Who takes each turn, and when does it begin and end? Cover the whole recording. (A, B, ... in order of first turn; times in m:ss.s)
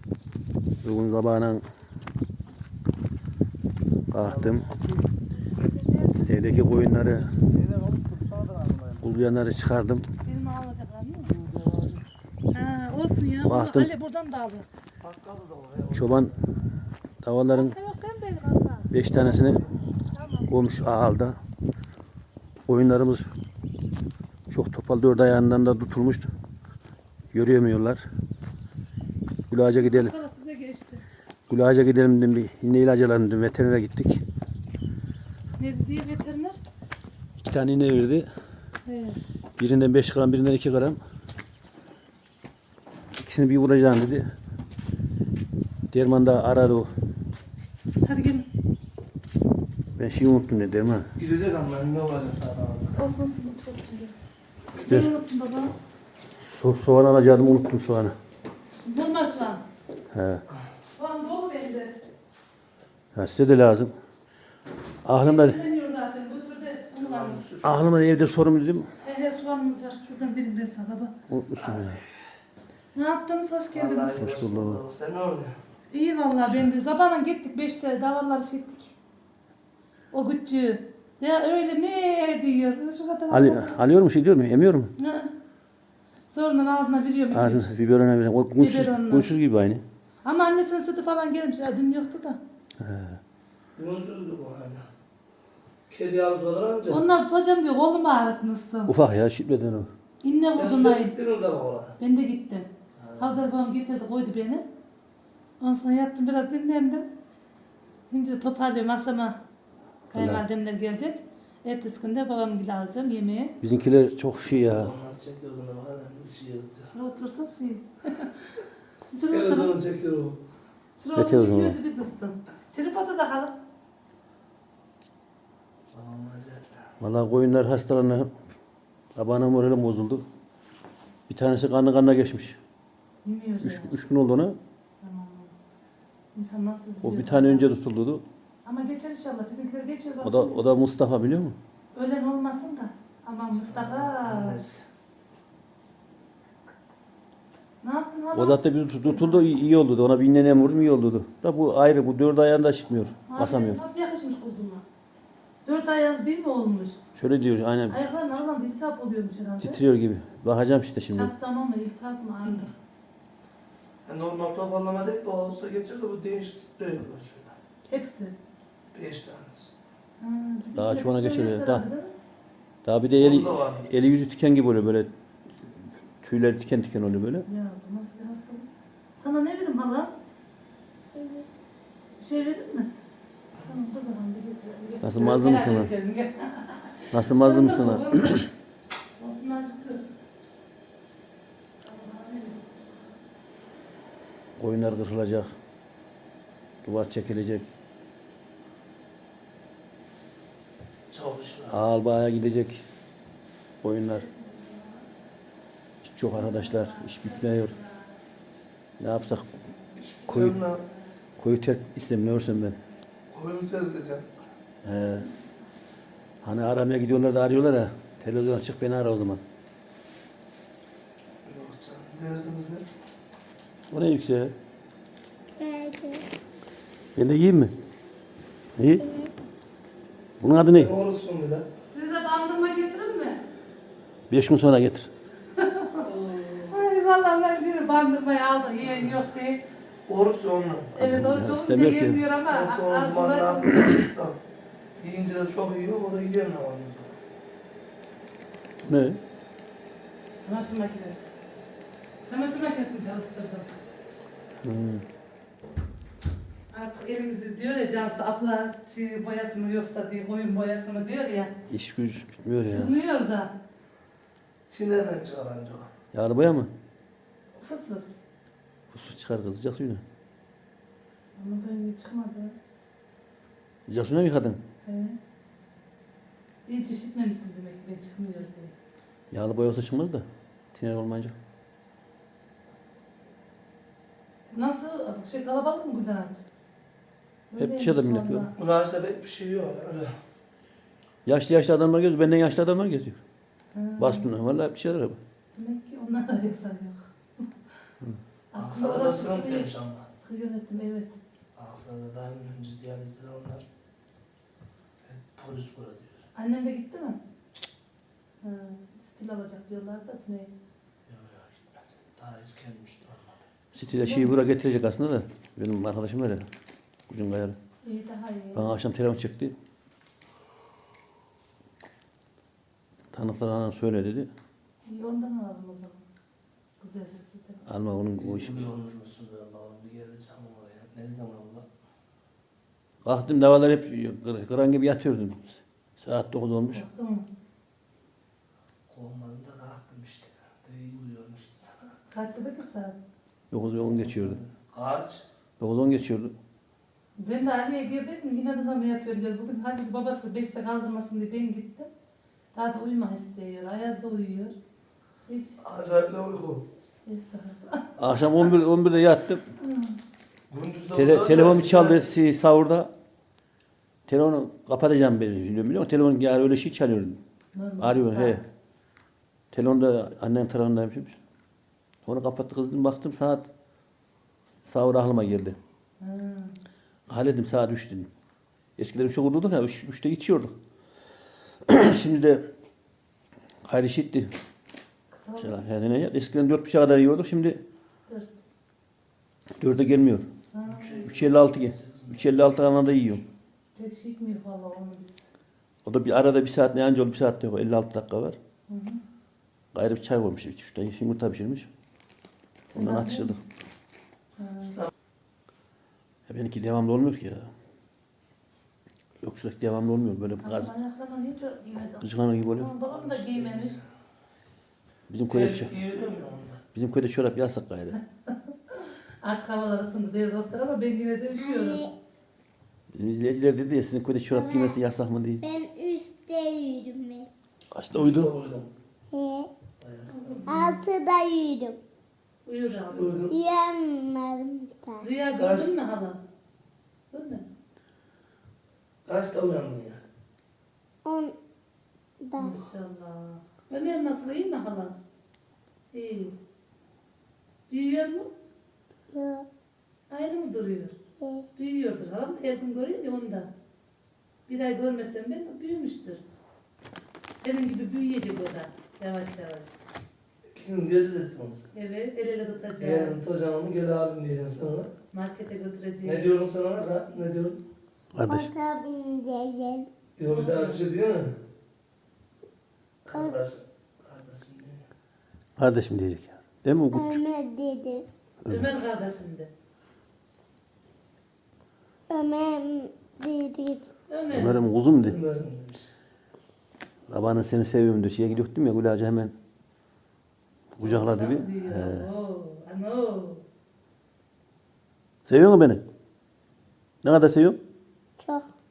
0:00.8-0:01.6 A
0:04.1-0:04.7 A
0:06.1-0:07.3 A
0:09.0-0:10.0 A
0:10.2-0:11.4 B
0:12.5-0:14.6 B
0:13.4-0:13.9 A
0:15.0-0:15.9 C
0:15.9-0:16.3 A
0:17.2-0:17.8 A
0:17.5-0:18.9 B
0:18.9-0:19.6 A
0:20.1-0:20.5 B
0:20.5-0:21.4 A
0:22.7-0:23.3 A
0:24.5-0:26.3 A
0:27.3-0:28.0 A
0:29.5-0:30.1 A
0:29.6-0:31.0 B
0:31.5-0:34.2 A
0:35.6-0:36.6 B
0:37.4-0:38.3 A
0:38.8-0:39.2 B
0:39.6-0:41.0 A
0:43.2-0:44.2 A
0:45.9-0:46.9 A
0:48.0-0:48.5 B
0:50.0-0:51.1 A
0:51.2-0:53.0 C
0:53.0-0:54.2 B
0:54.8-0:55.7 B
0:54.8-0:55.1 A
0:56.4-0:58.2 A
0:58.8-0:59.6 B
1:00.1-1:00.4 A
1:00.9-1:01.9 B
1:03.1-1:03.9 A
1:05.0-1:05.6 A
1:05.1-1:07.4 B
1:07.0-1:07.8 C
1:07.6-1:08.9 A
1:09.0-1:11.1 B
1:11.3-1:12.0 A
1:12.9-1:14.3 B
1:13.7-1:15.6 C
1:14.2-1:14.8 A
1:15.9-1:18.9 B
1:20.1-1:23.8 B
1:23.3-1:24.9 A
1:25.0-1:25.3 B
1:26.3-1:27.8 B
1:27.3-1:29.8 A
1:28.6-1:29.3 B
1:30.2-1:32.4 B
1:32.8-1:33.2 A
1:33.8-1:34.8 C
1:35.9-1:37.0 C
1:36.9-1:38.9 B
1:38.9-1:39.9 A
1:40.2-1:41.2 B
1:40.5-1:41.9 C
1:42.0-1:44.7 B
1:43.0-1:43.4 C
1:45.6-1:47.1 B
1:48.1-1:49.4 B
1:50.1-1:53.6 B
1:50.1-1:50.4 A
1:53.6-1:54.9 A
1:54.7-1:56.9 C
1:56.9-1:58.6 B
1:59.1-1:59.8 B
1:59.3-2:00.4 C
2:01.0-2:03.6 B
2:01.1-2:01.8 A
2:05.9-2:06.9 C
2:07.0-2:08.3 A
2:09.1-2:10.2 A
2:11.3-2:12.6 A
2:13.2-2:14.0 B
2:13.6-2:14.6 A
2:15.0-2:15.5 B
2:16.3-2:17.7 B
2:17.0-2:18.2 A
2:18.6-2:20.6 B
2:20.2-2:21.6 A
2:21.9-2:24.6 B
2:23.5-2:24.8 C
2:27.8-2:29.5 B
2:28.3-2:33.8 A
2:33.3-2:34.8 B
2:35.6-2:37.0 B
2:37.1-2:38.0 A
2:37.9-2:39.8 B
2:39.6-2:41.3 A
2:41.1-2:42.7 B
2:44.0-2:47.6 C
2:47.9-2:48.4 B
2:48.9-2:49.7 C
2:50.2-2:52.1 B
2:50.7-2:51.8 A
2:52.8-2:55.1 A
2:53.2-2:53.9 C
2:56.2-2:57.4 A
2:57.5-3:00.1 B
3:01.1-3:01.4 D
3:02.2-3:02.9 B
3:03.6-3:08.5 B
3:05.0-3:05.9 A
3:07.1-3:08.4 A
3:09.2-3:10.0 B
3:11.8-3:13.1 B
3:14.6-3:15.5 A
3:16.8-3:17.7 A
3:21.1-3:21.8 C
3:21.7-3:22.8 A
3:23.8-3:24.3 A
3:24.1-3:25.0 B
3:26.0-3:27.8 A
3:26.3-3:28.1 B
3:29.0-3:29.5 A
3:30.0-3:30.8 C
3:30.3-3:30.6 A
3:31.4-3:32.8 A
3:33.3-3:34.3 C
3:34.8-3:35.3 A
3:36.4-3:39.4 A
3:41.4-3:42.8 C
3:43.9-3:44.5 A
3:45.6-3:46.2 D
3:47.1-3:47.7 A
3:48.8-3:49.1 A
3:49.0-3:49.3 D
3:50.4-3:50.9 A
3:50.6-3:51.6 C
3:51.9-3:53.4 B
3:54.3-3:55.1 A
3:55.6-3:56.1 B
3:56.0-3:56.8 C
3:56.7-3:59.6 B
4:00.1-4:00.9 C
4:00.9-4:03.9 B
4:01.0-4:02.2 A
4:02.5-4:04.4 C
4:05.0-4:07.2 C
4:08.8-4:09.2 A
4:10.4-4:11.3 B
4:12.2-4:13.7 B
4:14.6-4:15.0 A
4:16.7-4:21.5 B
4:21.7-4:22.9 A
4:22.6-4:23.5 B
4:24.7-4:25.9 C
4:26.1-4:26.7 A
4:27.6-4:28.2 B
4:28.9-4:30.0 A
4:31.4-4:32.5 B
4:33.9-4:34.6 A
4:34.8-4:35.2 B
4:36.7-4:38.7 B
4:39.3-4:41.4 A
4:44.5-4:46.4 B
4:47.5-4:48.6 B
4:47.6-4:48.5 A
4:48.6-4:50.1 C
4:51.2-4:53.2 A
4:53.7-4:54.3 B
4:54.0-4:55.2 A
4:55.5-4:57.1 B
4:58.5-5:01.2 B
4:58.6-5:00.0 C
5:01.5-5:03.6 C
5:05.0-5:06.2 C
5:06.3-5:07.2 B
5:08.4-5:10.5 B
5:11.1-5:13.4 C
5:13.7-5:16.5 A
5:13.8-5:14.4 B
5:17.1-5:17.6 A
5:17.8-5:18.8 B
5:18.5-5:19.5 A
5:23.1-5:24.3 A
5:24.8-5:26.0 B
5:26.8-5:27.6 B
5:27.6-5:28.7 A
5:28.2-5:31.6 C
5:33.0-5:36.8 A
5:36.7-5:37.2 B
5:38.9-5:41.9 C
5:42.1-5:43.0 B
5:43.5-5:44.4 A
5:43.8-5:45.2 C
5:45.6-5:46.3 A
5:47.2-5:51.9 B
5:52.5-5:54.5 B
5:55.3-5:55.6 B
5:55.6-5:56.7 C
5:57.0-5:57.9 B
5:58.0-5:59.5 A
5:59.6-6:00.0 B
6:00.5-6:02.0 C
6:00.9-6:02.9 A
6:04.1-6:07.2 A
6:07.5-6:08.4 B
6:07.8-6:08.4 A
6:09.5-6:11.2 A
6:12.0-6:13.5 A
6:14.6-6:15.6 A
6:16.0-6:16.6 B
6:17.1-6:18.1 A
6:18.8-6:20.6 A
6:21.7-6:22.4 A
6:23.6-6:24.3 A
6:25.1-6:25.5 B
6:25.4-6:27.6 A
6:28.1-6:28.4 B
6:29.6-6:30.3 A
6:30.5-6:31.0 B
6:30.6-6:32.4 C
6:31.0-6:33.2 A
6:33.7-6:35.2 B
6:35.8-6:38.4 A
6:38.7-6:39.0 B
6:39.7-6:41.7 A
6:42.7-6:43.4 B
6:42.7-6:43.4 A
6:44.4-6:44.8 B
6:46.3-6:47.5 A
6:49.2-6:50.7 A
6:50.4-6:53.8 B
6:52.0-6:52.7 A
6:52.9-6:53.8 C
6:55.1-6:55.7 A
6:55.3-6:56.6 C
6:56.7-6:58.0 A
6:58.3-7:01.9 B
7:01.4-7:01.9 D
7:02.9-7:05.4 A
7:04.3-7:04.8 D
7:05.4-7:07.3 D
7:07.7-7:08.3 A
7:07.9-7:08.7 C
7:09.1-7:09.5 D
7:09.8-7:10.5 C
7:10.1-7:10.8 B
7:10.5-7:11.8 D
7:12.4-7:13.2 B
7:12.6-7:13.4 C
7:13.3-7:15.0 D
7:15.0-7:16.2 B
7:15.4-7:15.7 C
7:17.1-7:17.5 B
7:19.0-7:20.0 C
7:21.0-7:21.4 D
7:22.2-7:22.6 D
7:22.4-7:24.9 B
7:25.9-7:26.4 B
7:27.7-7:28.3 B
7:29.1-7:29.5 D
7:30.1-7:31.0 B
7:31.2-7:31.5 D
7:31.6-7:33.5 B
7:34.5-7:36.2 B
7:37.4-7:39.7 B
7:40.5-7:41.7 C
7:41.7-7:43.2 B
7:42.8-7:44.9 C
7:45.1-7:46.3 B
7:46.0-7:47.6 C
7:48.1-7:48.5 A
7:48.3-7:49.9 D
7:50.2-7:51.3 C
7:50.2-7:50.8 B
7:53.0-7:54.8 C
7:53.1-7:53.4 D
7:55.6-7:57.2 A
7:56.9-7:58.1 D
7:58.5-7:59.5 B
8:02.1-8:03.9 D
8:04.1-8:04.6 B
8:04.3-8:05.2 A
8:05.0-8:05.9 C
8:07.1-8:09.3 A
8:10.7-8:12.1 A
8:10.8-8:13.4 B
8:15.2-8:15.8 A
8:17.0-8:17.6 A
8:18.2-8:18.5 D